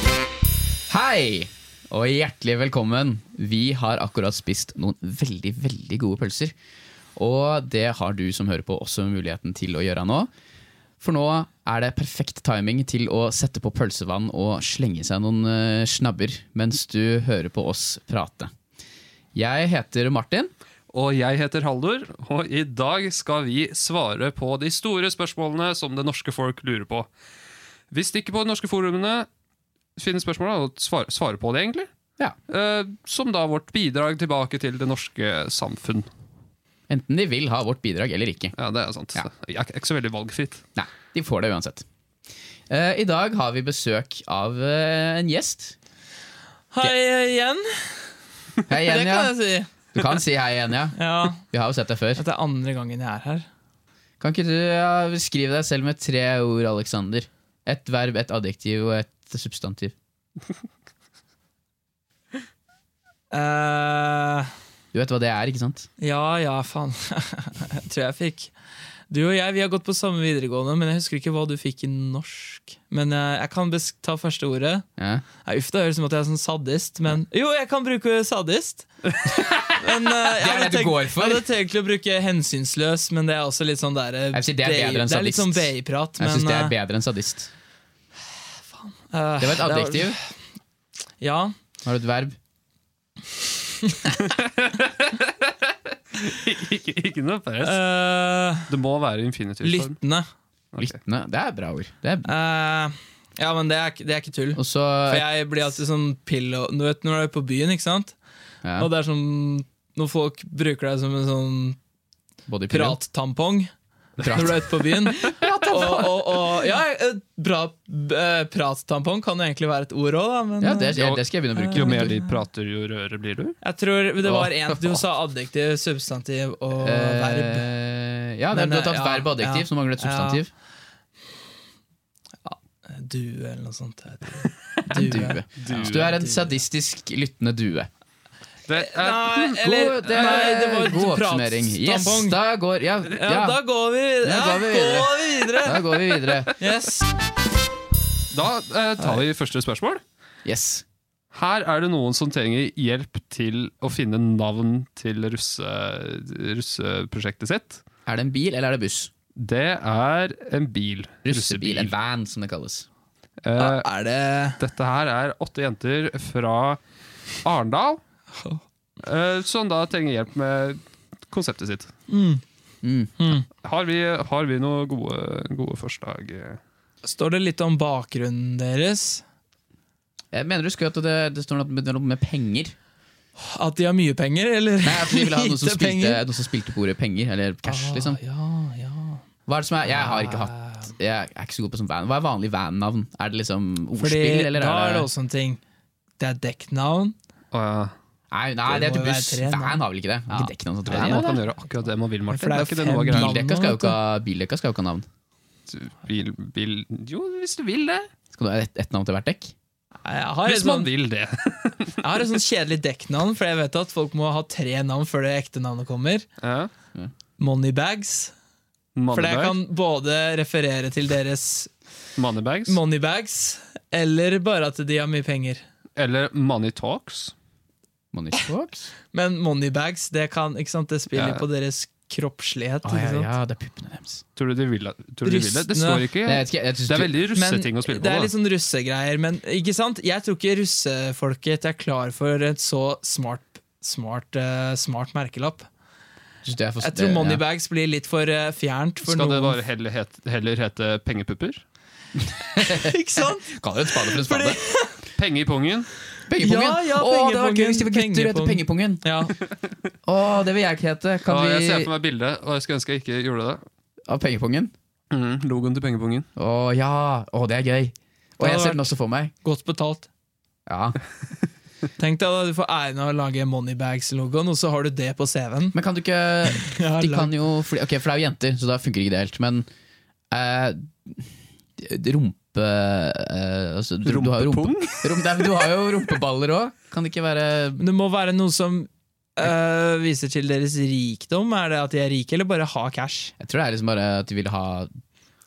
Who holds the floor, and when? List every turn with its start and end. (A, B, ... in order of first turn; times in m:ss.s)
0:00.9-0:06.5 A
0:07.2-0:10.3 A
0:11.0-0:18.5 A
0:19.3-0:20.5 A
0:20.9-0:27.1 B
0:27.9-0:29.3 B
0:30.0-0:31.9 B
0:32.5-0:36.1 B
0:36.9-0:38.5 A
0:38.6-0:40.6 B
0:40.8-0:41.8 A
0:42.7-0:45.8 A
0:46.7-0:48.1 C
0:48.7-0:49.3 A
0:48.8-0:50.2 C
0:49.9-0:52.2 A
0:51.0-0:51.4 C
0:52.2-0:53.5 C
0:54.2-0:59.9 A
1:03.3-1:04.5 C
1:04.9-1:05.9 A
1:06.0-1:08.5 C
1:09.1-1:14.8 C
1:15.0-1:15.2 A
1:15.4-1:26.7 C
1:19.5-1:21.5 A
1:24.3-1:27.5 A
1:28.7-1:30.3 C
1:29.4-1:30.2 A
1:31.2-1:31.5 C
1:31.8-1:32.4 A
1:34.2-1:37.8 B
1:37.6-1:38.7 C
1:38.7-1:39.9 B
1:39.6-1:40.3 C
1:40.8-1:42.3 A
1:42.2-1:48.1 C
1:44.6-1:45.2 A
1:48.6-1:48.9 A
1:48.8-1:51.8 C
1:52.5-1:53.0 A
1:52.7-1:53.7 C
1:54.2-1:56.4 A
1:54.3-2:01.0 C
1:55.2-1:55.7 B
2:00.6-2:02.1 A
2:00.9-2:03.6 B
2:01.6-2:02.3 C
2:03.6-2:07.6 C
2:04.2-2:05.0 A
2:06.8-2:10.5 A
2:08.5-2:10.4 C
2:12.4-2:16.5 C
2:14.9-2:17.9 A
2:15.6-2:16.2 B
2:18.7-2:20.5 B
2:18.7-2:22.4 C
2:19.6-2:23.6 A
2:23.1-2:25.9 C
2:24.2-2:26.5 A
2:26.5-2:27.1 C
2:28.3-2:30.0 B
2:30.4-2:30.8 A
2:31.3-2:37.8 B
2:38.1-2:39.1 A
2:39.4-2:41.9 B
2:41.2-2:42.9 A
2:43.4-2:43.9 B
2:43.6-2:44.6 C
2:44.6-2:46.8 B
2:47.4-2:48.0 B
2:48.4-2:48.6 C
2:49.0-2:51.9 B
2:52.1-2:52.4 C
2:52.8-2:53.1 A
2:53.2-2:53.4 C
2:53.6-2:56.6 B
2:57.0-2:59.2 C
3:00.3-3:02.8 A
3:03.4-3:06.2 C
3:04.8-3:08.2 A
3:07.6-3:09.2 C
3:09.5-3:15.1 A
3:09.8-3:10.9 C
3:14.0-3:15.6 C
3:16.2-3:17.1 C
3:17.5-3:17.9 B
3:18.3-3:21.4 A
3:18.7-3:19.8 C
3:20.9-3:23.3 B
3:20.9-3:21.2 C
3:22.3-3:24.0 C
3:23.1-3:25.1 A
3:25.7-3:28.1 B
3:28.3-3:29.5 A
3:30.0-3:30.9 C
3:30.4-3:32.4 B
3:32.0-3:36.3 C
3:36.4-3:36.7 B
3:37.4-3:38.3 C
3:38.9-3:39.6 B
3:39.1-3:41.7 C
3:42.2-3:42.8 B
3:42.7-3:45.6 C
3:46.0-3:47.3 B
3:48.1-3:48.9 A
3:49.1-3:53.3 C
3:51.1-3:51.4 B
3:52.8-3:54.2 A
3:54.4-3:58.3 B
3:55.2-3:56.1 C
3:56.2-3:57.1 A
3:57.3-4:05.7 C
4:06.4-4:07.4 A
4:06.8-4:09.6 C
4:09.0-4:11.6 B
4:12.3-4:12.9 A
4:12.6-4:15.0 C
4:13.5-4:14.6 A
4:15.2-4:15.9 B
4:16.3-4:19.0 A
4:16.4-4:19.4 C
4:20.0-4:21.9 A
4:21.3-4:23.6 B
4:24.1-4:24.7 A
4:25.1-4:26.3 B
4:26.4-4:29.3 A
4:28.4-4:30.1 C
4:30.7-4:31.0 A
4:32.0-4:35.8 C
4:35.7-4:39.7 A
4:36.5-4:37.3 C
4:40.3-4:47.8 A
4:44.0-4:45.7 B
4:47.8-4:53.3 C
4:53.4-4:54.9 A